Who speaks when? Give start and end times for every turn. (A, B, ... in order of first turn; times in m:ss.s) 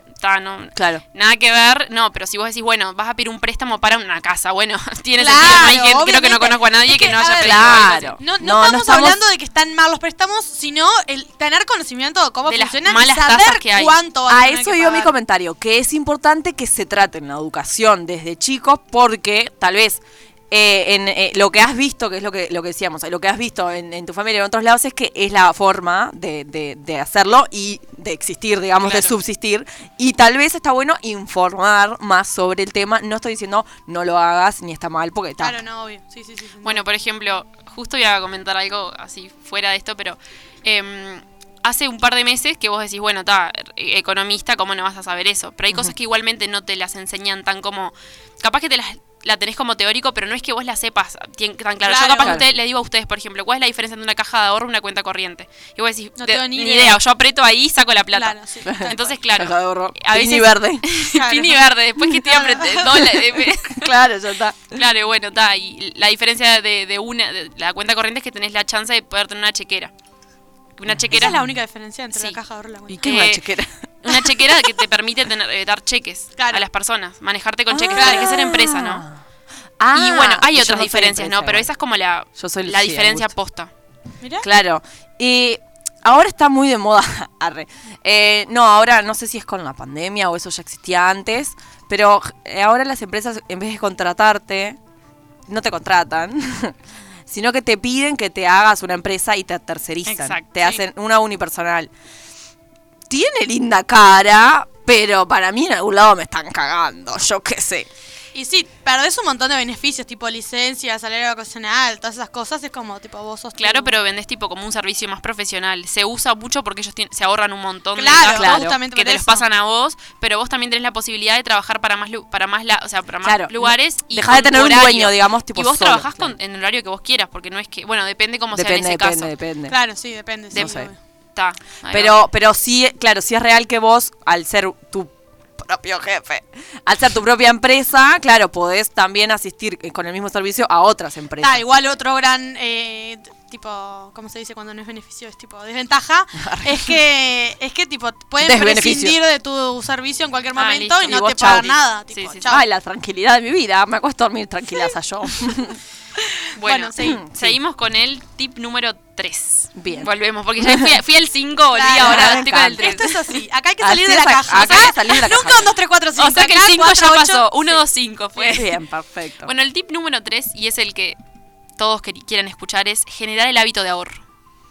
0:00.2-0:08.2 A
0:00.7-0:01.0 B
0:05.2-0:15.1 C
0:07.4-0:09.2 B
0:12.5-0:14.0 A
0:14.3-0:35.6 B
0:28.8-0:29.1 A
0:35.4-0:36.8 C
0:36.6-1:03.9 A
0:51.8-0:52.4 C
0:52.2-0:52.4 B
0:56.2-0:57.0 C
0:58.1-0:59.1 C
0:58.6-1:00.8 B
1:01.1-1:01.6 C
1:02.2-1:02.8 C
1:02.7-1:04.8 B
1:04.7-1:09.9 A
1:10.8-1:11.4 A
1:10.9-1:11.5 B
1:11.1-1:13.0 C
1:12.9-1:14.3 B
1:13.0-1:13.4 A
1:14.0-1:19.0 A
1:16.4-1:16.6 C
1:17.7-1:19.2 B
1:18.0-1:18.4 C
1:19.8-1:21.7 B
1:19.9-1:23.7 A
1:22.4-1:23.3 B
1:24.2-1:24.5 C
1:24.4-1:34.8 B
1:35.5-1:36.8 B
1:37.3-1:41.9 B
1:40.0-1:40.5 A
1:43.1-1:47.9 B
1:48.3-1:53.9 C
1:53.6-2:09.3 A
1:58.0-1:59.4 C
1:58.3-1:58.8 B
2:03.2-2:06.3 B
2:08.5-2:09.8 B
2:09.7-2:11.0 C
2:10.5-2:10.8 A
2:10.5-2:10.9 B
2:11.3-2:12.2 A
2:11.9-2:21.6 B
2:21.4-2:32.6 C
2:26.4-2:26.9 B
2:28.4-2:29.2 B
2:30.6-2:31.6 A
2:31.0-2:31.8 B
2:32.1-2:32.5 A
2:32.4-2:35.8 B
2:36.6-2:43.1 A
2:36.6-2:37.2 C
2:37.0-2:37.6 B
2:39.8-2:40.9 B
2:41.7-2:47.8 C
2:42.0-2:43.0 B
2:43.8-2:45.7 B
2:46.2-2:48.7 A
2:48.4-2:49.5 B
2:49.4-2:51.2 A
2:51.8-2:54.2 A